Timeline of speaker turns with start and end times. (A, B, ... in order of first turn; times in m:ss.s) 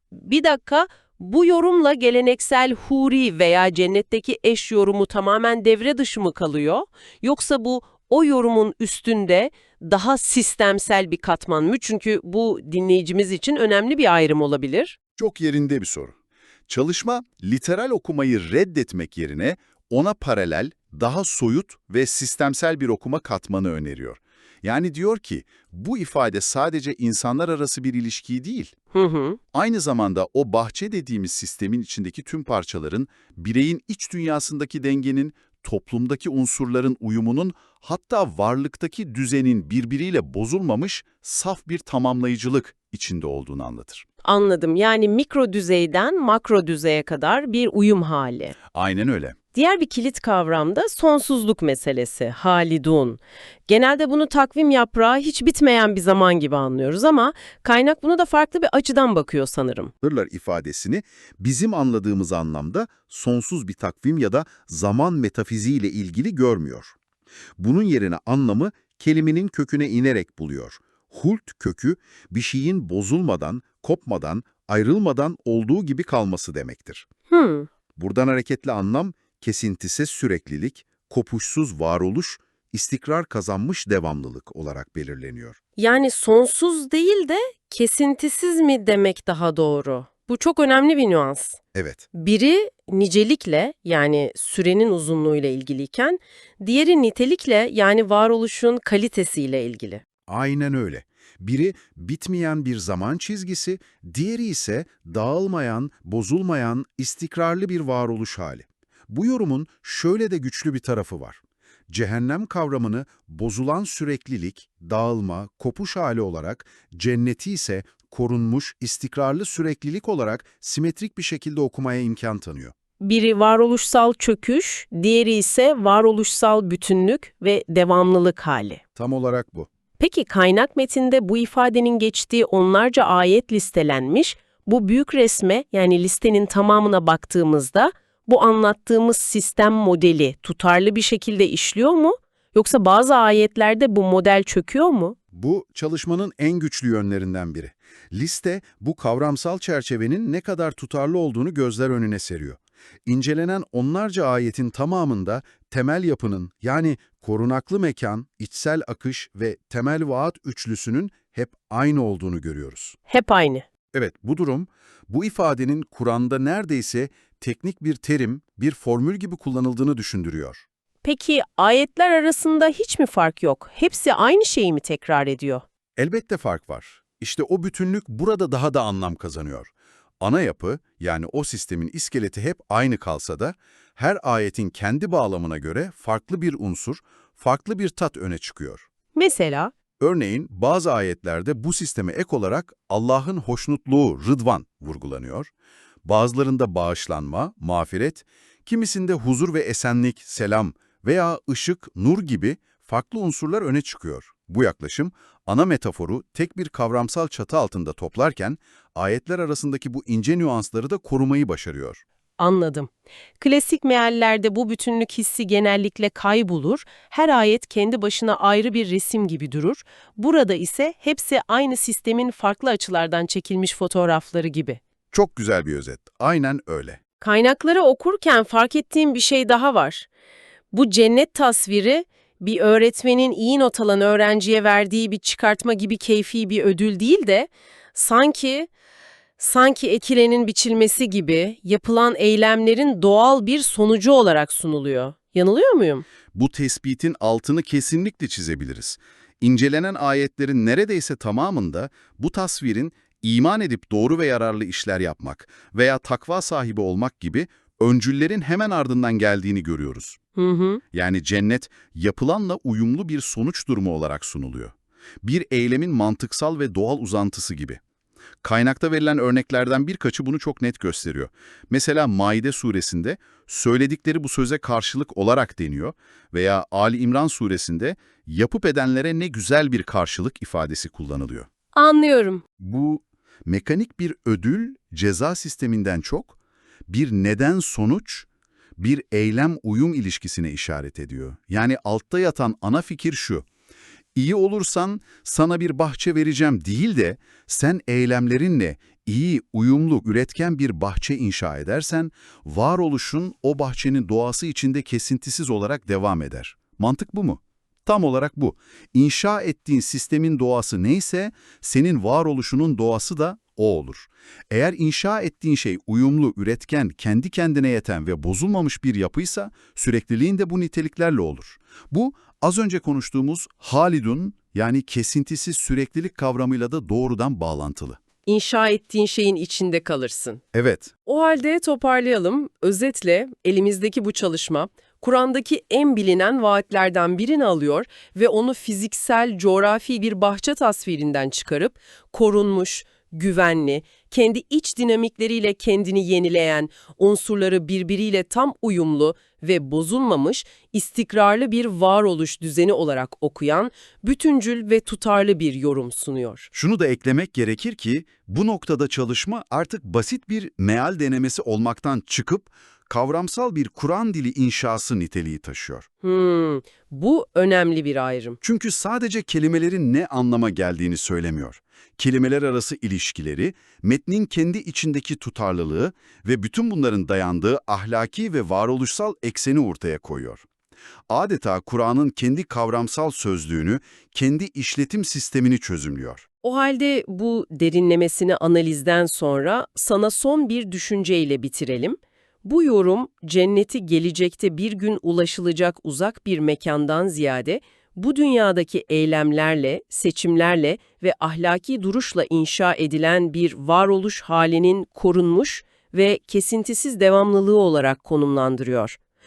0:00.1-0:15.0 A
0:15.2-0:16.1 B
0:16.7-0:28.7 B
0:28.9-0:29.4 A
0:29.5-0:44.0 B
0:44.2-0:48.6 A
0:48.7-0:49.4 B
0:49.5-0:59.9 A
1:00.0-1:06.9 B
1:07.6-1:17.1 B
1:17.3-1:17.7 A
1:18.0-1:25.6 B
1:25.8-1:31.6 A
1:31.7-1:32.0 B
1:32.1-1:40.0 A
1:40.3-2:02.7 B
2:03.0-2:08.8 A
2:09.0-2:09.7 B
2:10.0-2:25.2 A
2:25.3-2:43.0 B
2:43.1-2:43.6 A
2:43.9-2:50.6 B
2:51.0-2:55.6 A
2:56.0-3:08.8 B
3:09.1-3:09.7 A
3:10.0-3:15.5 B
3:16.0-3:32.0 B
3:32.4-3:44.8 A
3:45.1-3:47.0 B
3:47.2-3:50.1 A
3:50.7-3:58.7 A
3:59.4-4:06.0 A
4:06.3-4:20.2 B
4:20.4-4:20.8 A
4:20.9-4:27.8 B
4:28.4-4:41.5 B
4:41.7-4:42.4 A
4:42.6-4:46.4 B
4:46.9-4:53.4 B
4:54.1-5:28.0 B
5:28.2-5:30.4 A
5:30.5-5:30.9 B
5:31.0-5:56.5 A
5:56.5-6:05.9 B
6:06.0-6:08.4 A
6:08.4-6:20.4 B
6:21.1-6:26.2 B
6:26.4-6:49.0 A